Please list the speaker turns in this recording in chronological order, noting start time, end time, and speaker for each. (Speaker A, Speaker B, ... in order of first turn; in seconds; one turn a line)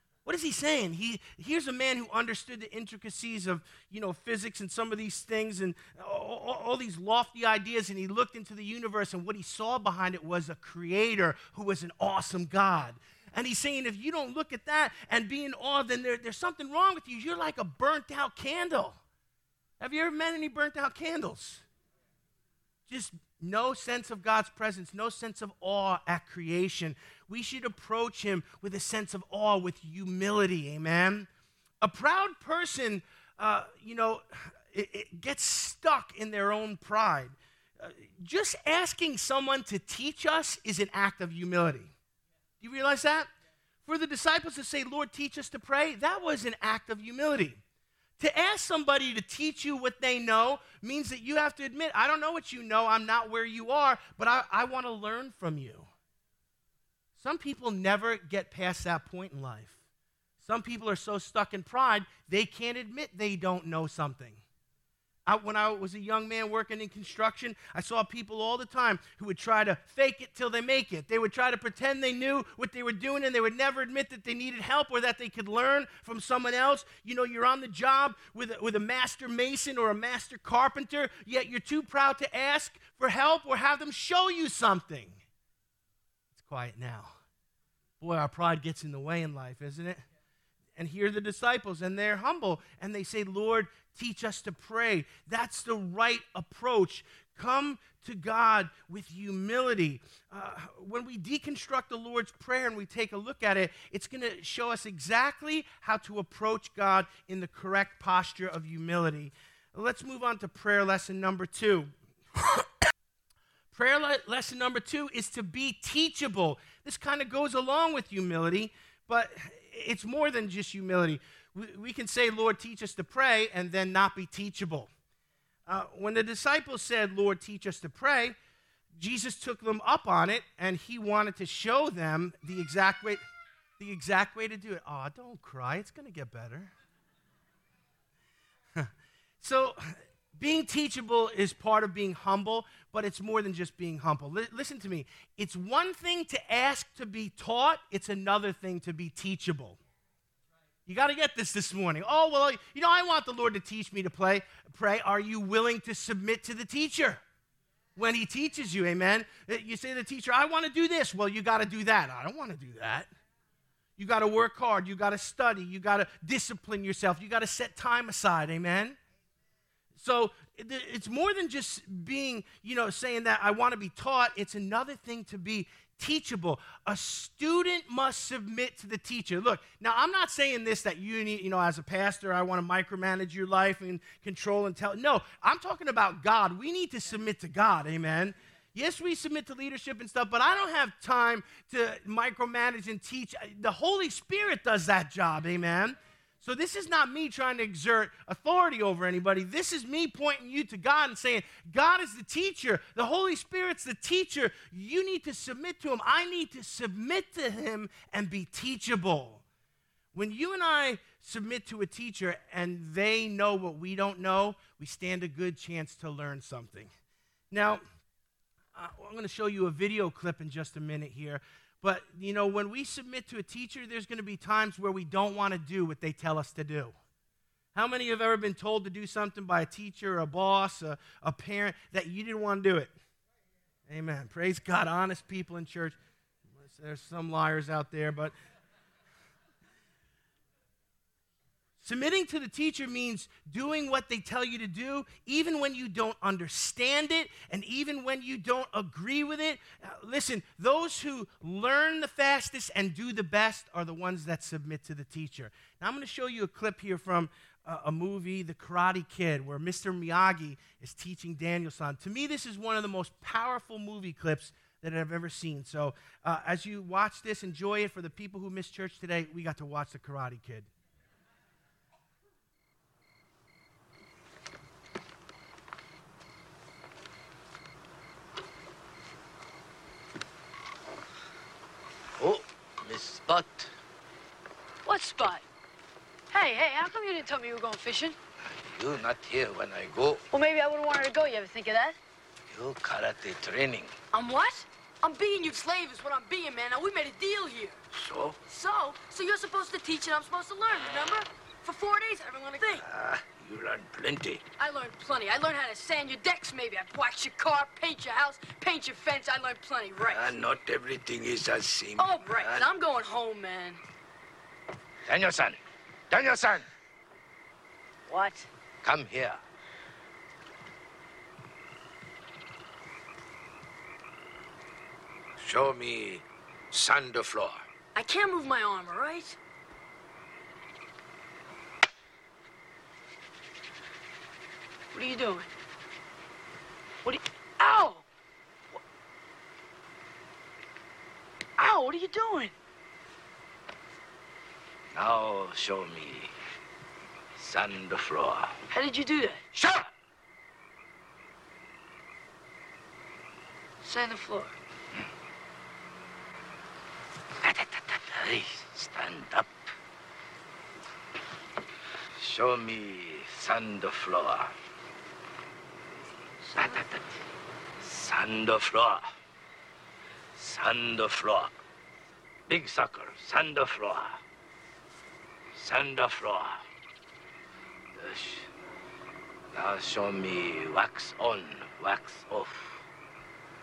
Speaker A: 0.2-19.0
Speaker A: 19.8-21.6
Speaker A: 22.9-31.3
Speaker A: 31.8-41.9
Speaker A: 42.6-43.3
Speaker A: 43.8-47.6
Speaker A: 48.2-55.9
Speaker A: 57.2-59.8
Speaker A: 60.4-64.4
Speaker A: 65.3-85.2
Speaker A: 86.3-87.2
Speaker A: 88.0-90.0
Speaker A: 90.8-111.9
Speaker A: 113.7-124.9
Speaker A: 125.7-128.3
Speaker A: 128.9-133.2
Speaker A: 133.8-136.7
Speaker A: 139.4-149.8
Speaker A: 150.8-157.2
Speaker A: 157.9-163.1
Speaker A: 164.0-169.0
Speaker A: 169.9-209.4
Speaker A: 210.1-216.9
Speaker A: 217.5-217.8
Speaker A: 218.7-226.9
Speaker A: 227.7-232.9
Speaker A: 233.9-236.0
Speaker A: 236.5-238.3
Speaker A: 241.8-270.7
Speaker B: 282.2-283.7
Speaker C: 284.8-285.4
Speaker C: 286.3-288.1
Speaker B: 288.5-290.2
Speaker C: 290.3-292.0
Speaker B: 292.5-293.9
Speaker C: 294.1-297.8
Speaker B: 297.9-298.4
Speaker C: 298.4-302.9
Speaker B: 302.7-304.4
Speaker C: 304.6-310.3
Speaker B: 310.0-312.6
Speaker C: 312.0-313.8
Speaker B: 315.1-316.7
Speaker C: 318.1-318.5
Speaker B: 318.8-319.4
Speaker B: 325.4-327.6
Speaker C: 327.9-329.4
Speaker C: 334.9-335.5
Speaker C: 337.0-338.0
Speaker C: 341.6-342.5
Speaker B: 344.9-346.3
Speaker B: 347.4-348.6
Speaker C: 348.7-349.4
Speaker B: 349.5-349.9
Speaker C: 353.8-354.5
Speaker B: 357.4-359.6
Speaker B: 362.1-364.5
Speaker B: 366.5-367.2
Speaker B: 367.8-369.1
Speaker B: 370.3-371.6
Speaker B: 372.5-374.2
Speaker B: 375.5-376.6
Speaker B: 377.9-378.5
Speaker B: 379.5-382.8